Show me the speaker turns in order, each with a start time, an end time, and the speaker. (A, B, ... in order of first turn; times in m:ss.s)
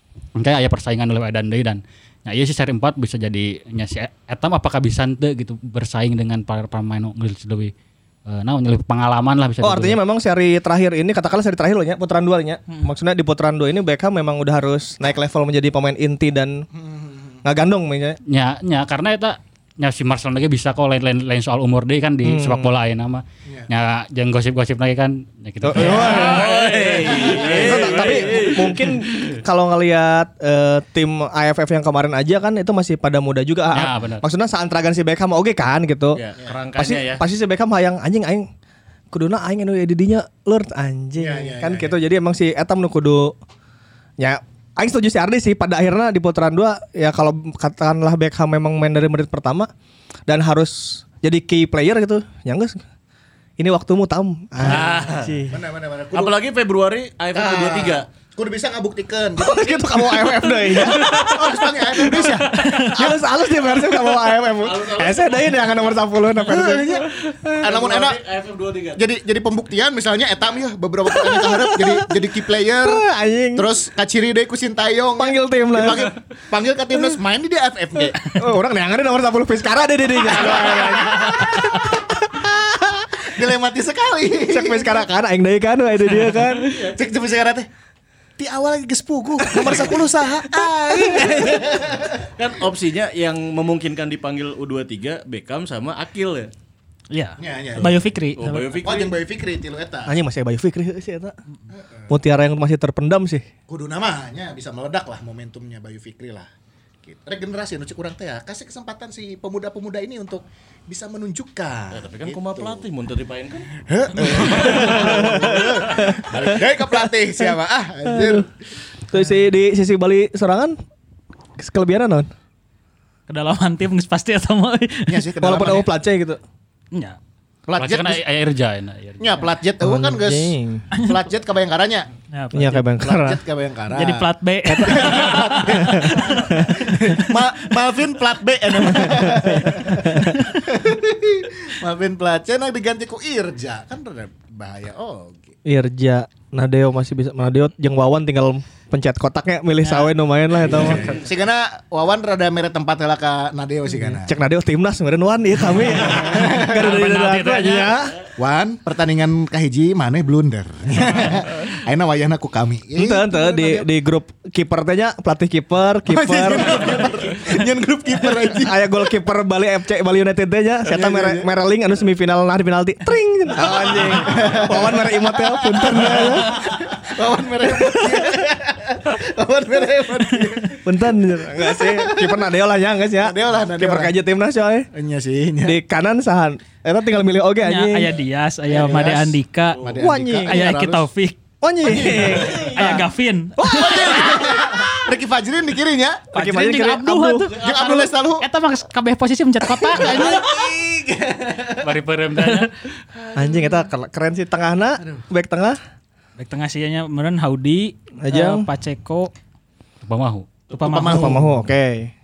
0:00.4-0:07.7 A
0:08.3-0:10.0 A
0:09.6-0:16.6 B
0:16.7-0:17.4 C
0:17.4-0:18.2 B
0:18.2-0:26.7 A
0:22.2-0:22.7 B
0:25.6-0:26.5 B
0:25.8-0:26.2 C
0:25.8-0:29.4 D
0:27.1-0:28.2 C
0:27.5-0:36.2 B
0:33.7-0:34.2 A
0:36.1-0:37.2 D
0:36.8-0:38.4 B
0:39.1-0:43.4 B
0:41.2-0:41.9 C
0:44.2-0:49.7 B
0:50.3-0:52.8 B
0:53.6-0:55.6 B
0:54.6-0:55.4 D
0:54.6-0:54.9 C
0:55.5-0:56.3 C
0:56.1-0:58.0 D
0:57.3-1:03.3 C
0:59.4-1:07.7 B
1:02.6-1:02.9 E
1:04.6-1:05.9 D
1:06.4-1:07.0 C
1:07.6-1:09.0 D
1:07.6-1:08.2 C
1:09.0-1:13.0 C
1:11.0-1:13.7 B
1:13.5-1:18.2 C
1:15.2-1:16.1 B
1:18.3-1:23.2 B
1:20.2-1:22.0 C
1:23.3-1:25.0 C
1:24.5-1:26.8 B
1:26.6-1:27.0 D
1:26.9-1:27.7 C
1:28.4-1:32.3 C
1:29.5-1:30.0 B
1:30.6-1:31.4 B
1:31.1-1:36.5 D
1:37.1-1:38.8 E
1:37.4-1:38.0 C
1:37.8-1:39.1 D
1:38.7-1:40.2 C
1:40.0-1:41.3 B
1:41.7-1:42.1 C
1:42.1-1:43.4 B
1:43.7-1:46.5 C
1:47.0-1:52.8 C
1:51.9-1:56.2 D
1:53.8-1:58.5 C
1:54.8-1:56.4 B
1:58.1-1:58.4 B
1:59.1-2:00.8 B
2:01.6-2:02.3 B
2:03.3-2:05.6 E
2:05.1-2:05.9 C
2:05.4-2:06.4 B
2:07.7-2:08.2 C
2:07.8-2:09.4 A
2:09.2-2:12.1 C
2:09.8-2:10.8 B
2:12.3-2:12.9 E
2:12.5-2:13.4 B
2:13.0-2:25.5 C
2:13.9-2:16.2 E
2:14.7-2:15.2 B
2:15.7-2:16.7 B
2:18.8-2:20.5 B
2:25.6-2:31.0 B
2:30.6-2:34.4 C
2:30.6-2:31.2 D
2:34.2-2:38.1 B
2:36.0-2:36.8 C
2:36.6-2:38.0 A
2:38.4-2:43.9 C
2:43.0-2:47.5 B
2:46.1-2:48.9 C
2:48.5-2:56.6 B
2:50.9-2:51.5 C
2:53.6-3:02.5 C
2:57.7-2:58.4 B
3:00.8-3:04.9 B
3:03.2-3:04.1 C
3:04.9-3:05.8 C
3:05.6-3:08.1 B
3:07.6-3:09.9 E
3:08.7-3:11.1 C
3:09.7-3:10.0 D
3:10.0-3:10.6 B
3:10.4-3:11.4 E
3:11.6-3:14.8 B
3:11.8-3:12.9 D
3:12.0-3:14.4 E
3:13.7-3:16.3 C
3:16.3-3:20.6 E
3:16.3-3:17.5 B
3:17.5-3:17.8 D
3:17.6-3:18.5 C
3:19.7-3:21.9 C
3:21.8-3:22.9 A
3:22.4-3:22.7 E
3:23.2-3:23.7 C
3:23.3-3:25.8 B
3:26.4-3:29.3 E
3:28.2-3:28.6 B
3:30.0-3:30.5 A
3:30.7-3:31.4 E
3:30.8-3:31.5 C
3:31.0-3:32.1 B